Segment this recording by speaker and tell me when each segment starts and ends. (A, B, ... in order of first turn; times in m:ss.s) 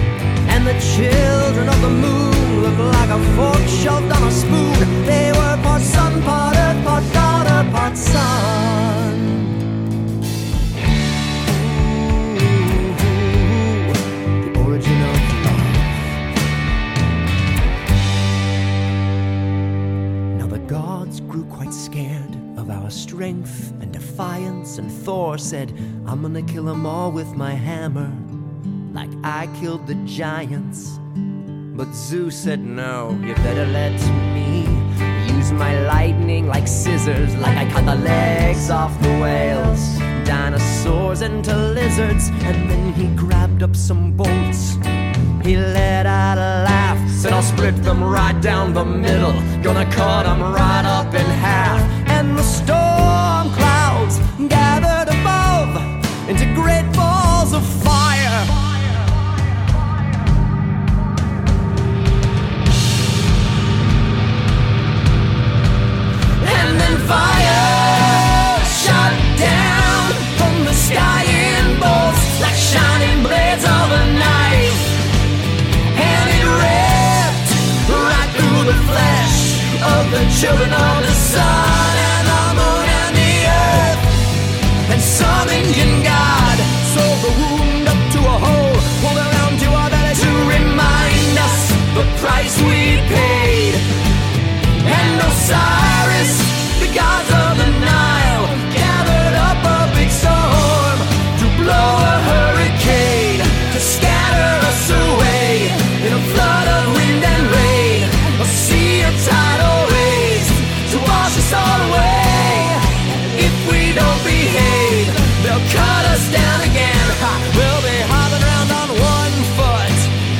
0:00.4-0:09.6 A
0:11.4-0:16.2 A
0:20.3-0:28.3 A
0:28.9-0:31.0 A
0:31.7-0:44.8 A
0:45.4-0:58.6 A
1:06.4-1:15.0 A
1:15.9-1:24.1 A
1:24.8-1:33.8 A
1:34.8-2:00.1 A